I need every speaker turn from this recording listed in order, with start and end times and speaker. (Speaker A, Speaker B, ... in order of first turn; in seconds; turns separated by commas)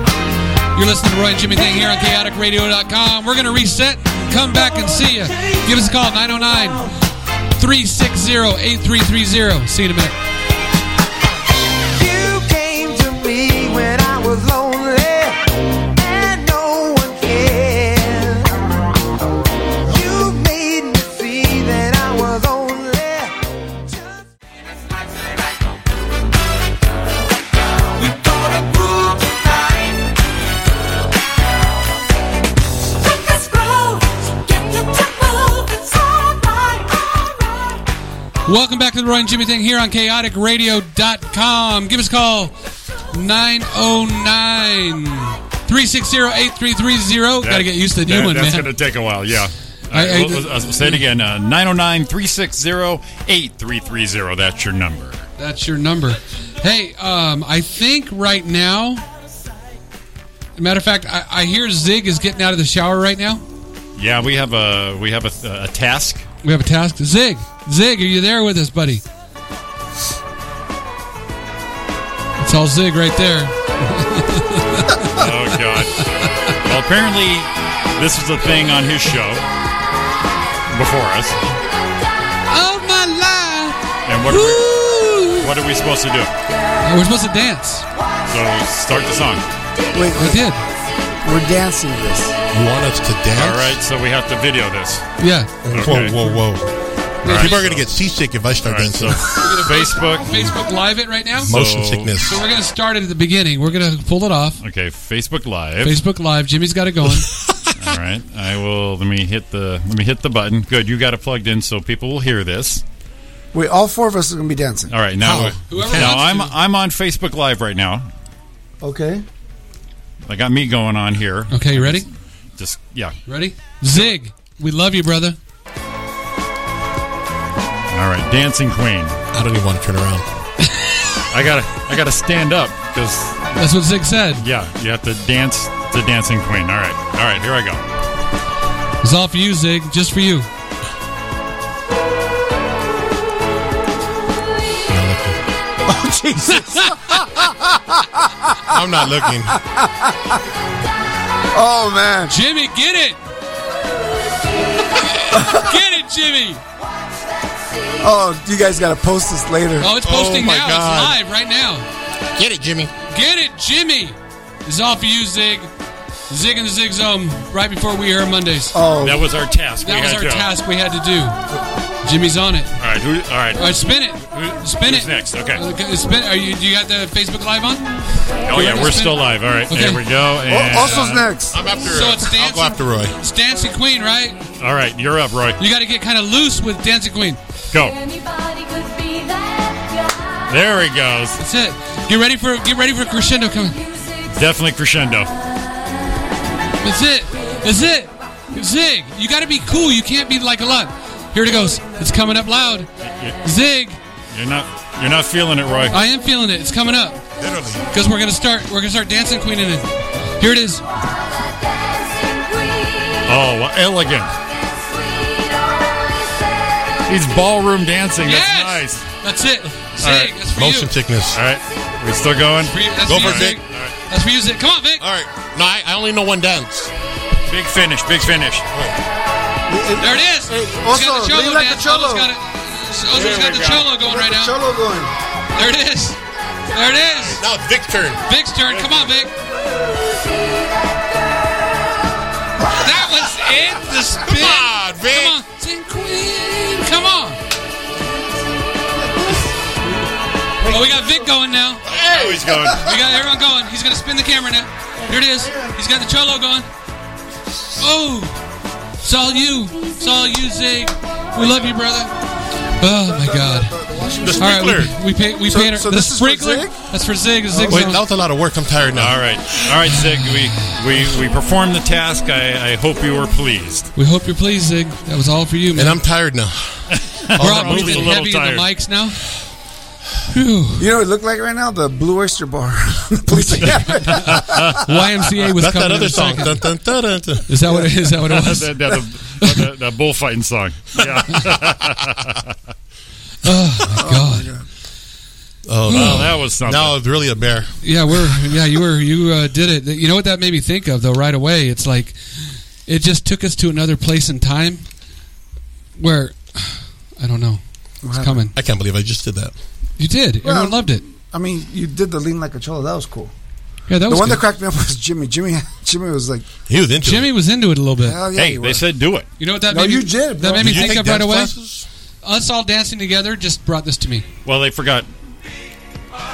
Speaker A: 0.7-6.9, Speaker B: 5.3-5.6, Speaker A: 7.6-10.2, Speaker B: 11.9-18.5, Speaker B: 19.9-23.4, Speaker B: 23.9-24.2, Speaker B: 27.9-30.0, Speaker B: 33.0-37.3, Speaker A: 38.5-42.5, Speaker A: 43.1-48.7, Speaker C: 47.4-55.2, Speaker A: 49.9-51.0, Speaker A: 55.4-59.0, Speaker A: 60.6-63.4, Speaker C: 64.0-66.2, Speaker A: 66.4-69.0, Speaker A: 72.4-75.3, Speaker C: 75.1-79.4, Speaker A: 76.2-76.5, Speaker C: 80.7-81.4, Speaker A: 82.5-85.5, Speaker C: 84.1-84.7, Speaker C: 85.3-86.3, Speaker A: 86.8-87.9, Speaker C: 88.3-89.5, Speaker D: 89.9-90.5, Speaker A: 90.2-90.6, Speaker D: 91.2-92.4, Speaker E: 92.5-93.7, Speaker C: 93.3-95.1, Speaker A: 95.2-95.6, Speaker E: 95.6-96.7, Speaker C: 95.7-96.2, Speaker A: 97.2-97.7, Speaker E: 97.2-99.2, Speaker C: 97.3-97.8, Speaker C: 98.6-100.5, Speaker A: 99.2-101.6, Speaker C: 101.4-102.1, Speaker E: 101.5-102.4, Speaker A: 102.2-104.6, Speaker C: 104.6-106.0, Speaker A: 105.8-107.3, Speaker E: 107.4-107.7, Speaker C: 107.8-112.8, Speaker D: 113.5-114.9, Speaker C: 114.9-118.1, Speaker E: 115.2-116.1, Speaker A: 115.7-116.5, Speaker D: 118.8-119.2, Speaker C: 120.3-123.2, Speaker A: 121.5-122.1, Speaker A: 123.3-125.4, Speaker C: 127.9-129.2, Speaker E: 129.3-130.2, Speaker C: 131.3-133.4, Speaker A: 133.6-134.4, Speaker C: 134.4-137.8, Speaker A: 139.0-140.5, Speaker E: 144.9-145.4, Speaker D: 145.8-150.4, Speaker A: 146.6-146.9, Speaker E: 148.7-149.6, Speaker D: 151.5-152.4, Speaker A: 152.3-153.2, Speaker A: 154.9-156.6, Speaker D: 155.3-155.7, Speaker D: 158.0-159.9, Speaker A: 159.8-161.9, Speaker E: 160.0-161.2, Speaker E: 162.3-162.9, Speaker A: 163.1-165.7, Speaker A: 166.3-168.8, Speaker D: 168.7-169.3, Speaker C: 169.0-170.5, Speaker A: 169.8-171.4, Speaker A: 172.0-172.8, Speaker C: 172.8-173.7, Speaker A: 173.6-180.0, Speaker C: 174.8-175.6, Speaker C: 178.4-181.3, Speaker D: 180.5-181.7, Speaker A: 180.8-181.1, Speaker E: 181.5-183.2, Speaker A: 181.9-184.4, Speaker C: 184.6-185.6, Speaker A: 185.6-187.4, Speaker C: 187.7-188.0, Speaker C: 190.5-191.4, Speaker A: 191.4-193.8, Speaker C: 194.2-195.4, Speaker A: 196.8-202.9, Speaker C: 203.0-203.4, Speaker A: 203.4-204.0, Speaker C: 204.3-206.0, Speaker A: 205.9-207.2, Speaker E: 207.4-207.9, Speaker A: 207.9-210.8, Speaker C: 213.2-214.3, Speaker C: 217.1-219.1, Speaker A: 218.2-220.9, Speaker C: 220.0-220.3, Speaker E: 220.6-221.4, Speaker C: 221.3-223.9, Speaker A: 222.7-225.0, Speaker E: 223.0-223.6, Speaker E: 225.0-226.9, Speaker C: 227.5-228.7, Speaker D: 229.7-232.3, Speaker A: 230.0-234.6, Speaker C: 233.1-233.9, Speaker D: 234.0-235.1, Speaker A: 235.6-236.2, Speaker A: 236.7-237.4, Speaker E: 237.3-238.2, Speaker A: 238.3-239.3, Speaker A: 242.7-247.4, Speaker E: 244.2-245.4, Speaker A: 250.6-251.8, Speaker D: 250.6-251.1, Speaker C: 251.9-252.9, Speaker A: 252.7-256.7, Speaker A: 257.8-258.4, Speaker A: 259.0-262.1, Speaker A: 262.8-263.8, Speaker D: 262.9-264.6, Speaker E: 264.2-264.9, Speaker A: 264.4-268.0, Speaker D: 265.5-266.8, Speaker D: 267.5-267.9, Speaker E: 267.7-269.4, Speaker C: 268.9-273.9, Speaker A: 273.9-276.0, Speaker E: 275.7-278.1, Speaker C: 276.9-278.7, Speaker A: 277.4-279.4, Speaker A: 280.3-280.9, Speaker D: 280.8-284.7, Speaker A: 283.4-286.7, Speaker C: 284.1-284.7, Speaker E: 285.6-287.5, Speaker A: 287.5-288.7, Speaker D: 287.6-288.1, Speaker C: 288.3-292.5, Speaker A: 293.4-294.5, Speaker D: 293.9-294.6, Speaker E: 295.6-298.5, Speaker A: 295.9-296.3, Speaker C: 295.9-297.0, Speaker A: 297.8-304.9, Speaker A: 306.0-308.5, Speaker D: 308.0-308.4, Speaker E: 308.5-309.5, Speaker A: 310.0-311.0, Speaker D: 310.4-313.3, Speaker A: 313.9-314.4, Speaker D: 314.1-316.5, Speaker E: 316.7-317.3, Speaker A: 317.0-318.2, Speaker D: 318.0-318.9, Speaker C: 318.4-319.3, Speaker A: 319.4-321.5, Speaker D: 319.7-320.9, Speaker E: 320.6-321.9, Speaker A: 322.2-324.3, Speaker C: 324.4-325.1